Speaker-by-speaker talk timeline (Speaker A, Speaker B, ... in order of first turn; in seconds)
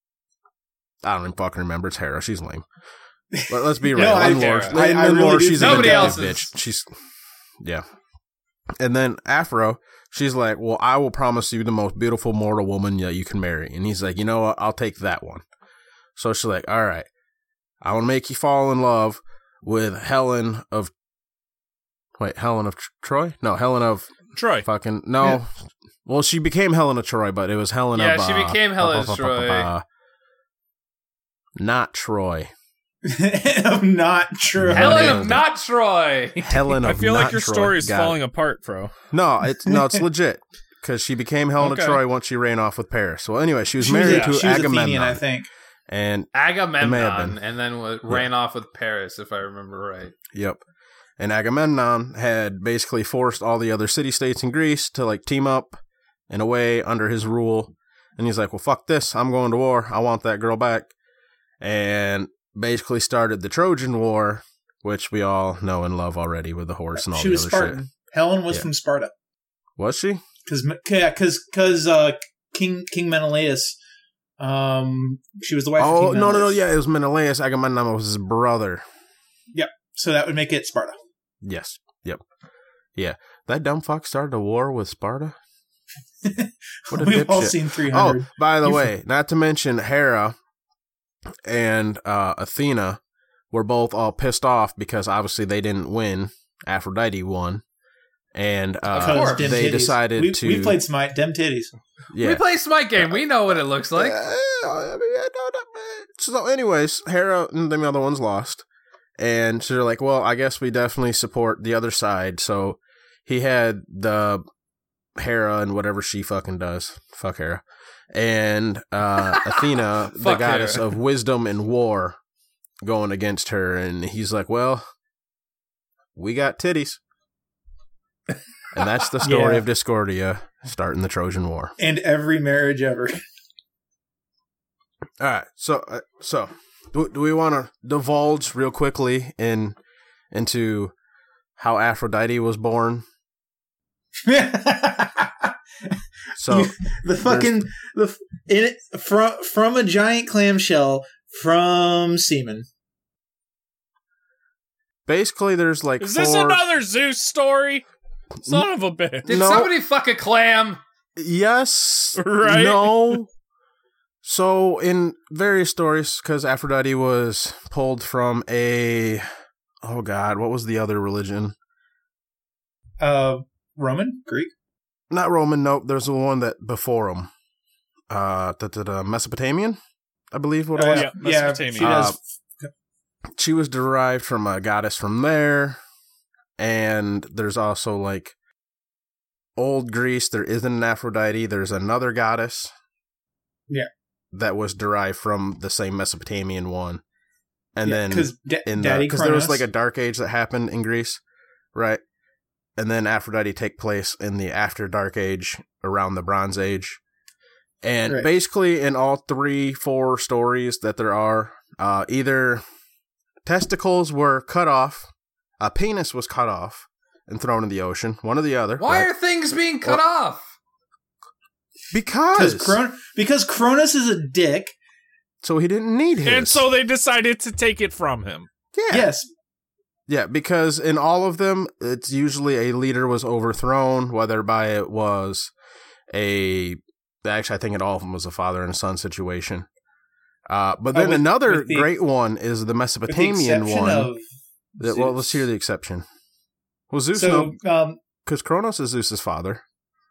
Speaker A: 1.0-2.6, 3.5-6.9, 8.8-15.4, 16.1-17.1, 17.8-20.9, 22.2-29.8, 31.6-32.5, 34.6-35.5, 36.4-38.2, 39.1-45.2, 45.9-47.4, 50.3-50.6, 51.2-60.9, 61.6-67.8, 69.8-70.2, 75.8-78.8, 81.4-82.2, 83.0-85.3, 86.9-90.3, 91.4-93.0, 93.5-97.6, 98.3-100.8, 102.1-102.4, 103.0-103.2, 103.9-108.6, 109.2-114.4, 115.2-122.2, 122.8-124.8, 126.2-127.0, 128.7-131.7, 135.2-139.8, 140.3-140.9, 141.6-143.0, 146.3-147.7, 155.1-156.6, 158.4-158.7, 159.3-159.7, 161.2-163.3, 164.2-169.2, 169.8-171.5, 175.1-177.3, 178.1-179.8, 180.3-182.2, 183.4-185.8, 186.6-188.3, 189.6-192.7, 194.3-197.0, 197.8-201.2, 201.7-202.0, 202.8-207.0, 207.8-212.6, 213.4-219.1, 221.9-222.8, 225.4-226.6, 228.7-229.1, 230.1-235.5, 236.1-239.7, 240.5-244.1, 244.8-246.0, 246.9-247.5, 248.2-249.6
Speaker B: 3.3-6.3, 33.0-35.2, 43.8-45.5, 67.0-69.1, 70.4-73.8, 74.4-76.5, 79.5-81.0, 86.2-88.9, 99.0-101.7, 129.2-129.7, 131.8-133.2, 144.2-145.9, 146.4-152.7, 173.0-174.5, 180.8-182.7, 197.8-199.6, 222.3-224.7, 228.9-229.3, 240.9-241.9, 243.1-244.2, 244.8-245.4, 247.2-248.0
Speaker C: 4.1-4.8, 5.5-6.5, 27.9-29.7, 34.7-36.9, 44.0-44.3, 46.3-50.2, 98.9-99.7, 102.2-104.2, 119.2-120.9, 159.2-160.8, 218.8-220.4
Speaker D: 24.3-24.7, 36.8-38.9, 41.6-42.0, 156.0-157.8, 158.4-159.3, 162.2-163.2, 180.9-182.1, 226.2-228.5